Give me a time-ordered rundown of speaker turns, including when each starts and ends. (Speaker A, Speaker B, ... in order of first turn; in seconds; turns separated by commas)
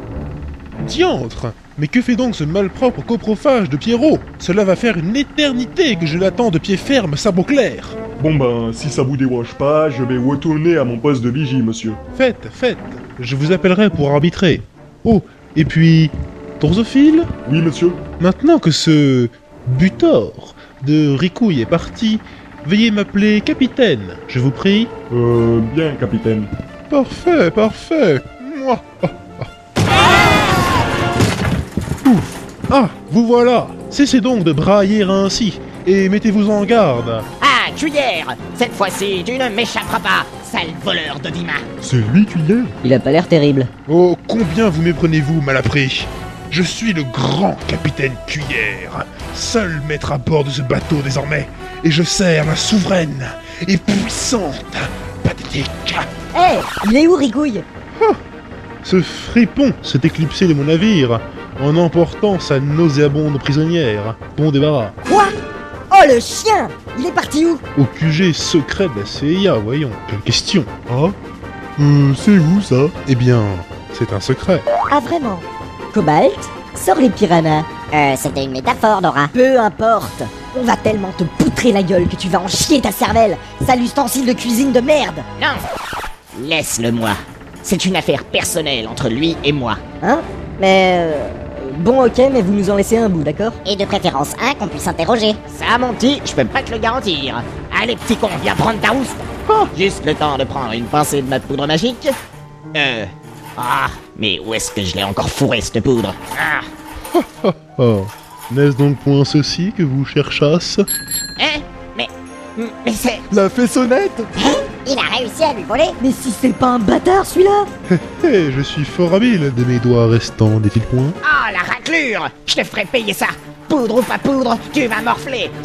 Speaker A: 0.8-8.0, Speaker B: 8.2-12.0, Speaker A: 12.2-17.3, Speaker B: 17.4-18.0, Speaker A: 18.2-24.9, Speaker B: 25.1-26.5, Speaker A: 26.9-29.5, Speaker A: 32.0-37.2, Speaker C: 37.4-41.7, Speaker B: 41.8-42.8, Speaker D: 42.8-43.7, Speaker A: 43.9-56.1, Speaker D: 56.3-57.7, Speaker A: 58.8-65.0, Speaker D: 65.0-65.3, Speaker D: 65.9-67.6, Speaker A: 67.8-70.7, Speaker B: 70.9-71.2, Speaker B: 71.8-72.9, Speaker A: 73.1-74.7, Speaker D: 74.9-77.7, Speaker E: 77.9-79.3, Speaker D: 79.3-85.3, Speaker C: 85.4-85.6, Speaker C: 86.3-89.8, Speaker D: 90.0-93.6, Speaker E: 93.7-95.4, Speaker C: 95.5-99.2, Speaker C: 99.7-102.2, Speaker C: 102.7-106.7, Speaker A: 107.1-110.9, Speaker C: 111.4-113.2, Speaker B: 113.3-114.3, Speaker E: 114.4-116.0, Speaker D: 116.0-117.7, Speaker A: 117.9-121.2, Speaker C: 121.2-125.5